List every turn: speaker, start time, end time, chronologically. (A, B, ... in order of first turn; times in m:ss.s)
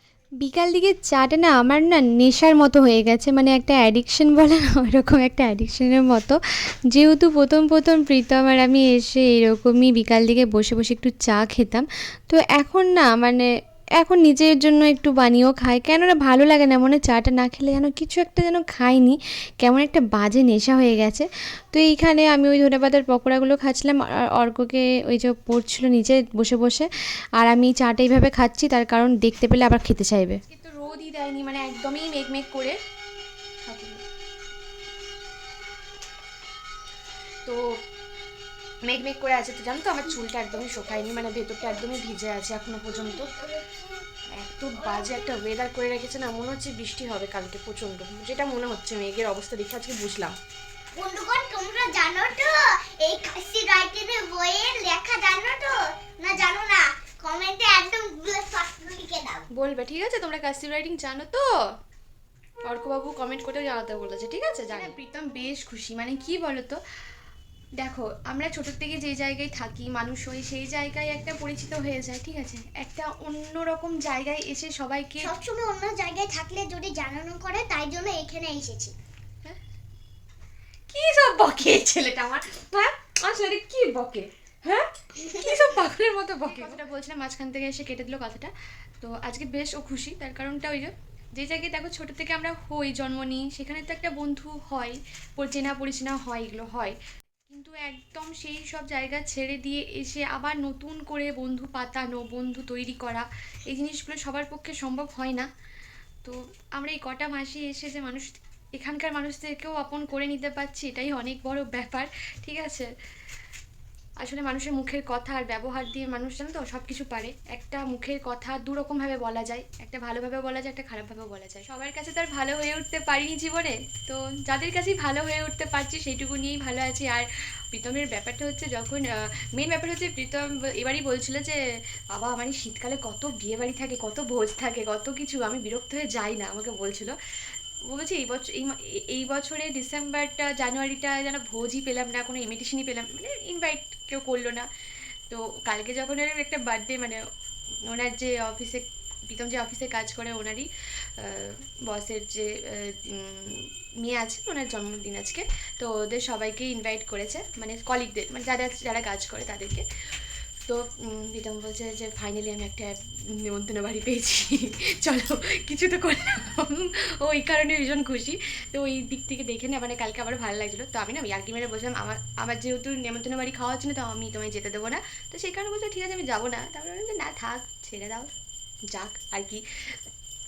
0:00.4-0:06.4 A
0:06.9-0:13.5 A
0:14.0-0:30.4 A
0:30.5-0:32.8 B
0:33.6-0:34.0 B
0:38.8-0:43.3 B
0:40.8-0:42.1 C
0:42.9-0:43.6 C
0:44.3-0:50.3 B
0:44.8-0:45.3 C
0:50.9-0:59.4 C
0:59.5-1:01.5 B
1:02.6-1:06.8 B
1:07.8-1:15.3 B
1:15.2-1:18.9 C
1:20.9-1:37.0 B
1:37.5-1:45.5 B
1:46.2-1:52.9 B
1:54.2-2:11.6 B
2:12.1-2:17.1 B
2:17.9-2:24.7 B
2:25.3-2:27.2 B
2:27.8-2:39.8 B
2:40.6-2:58.3 B
2:58.9-3:00.0 B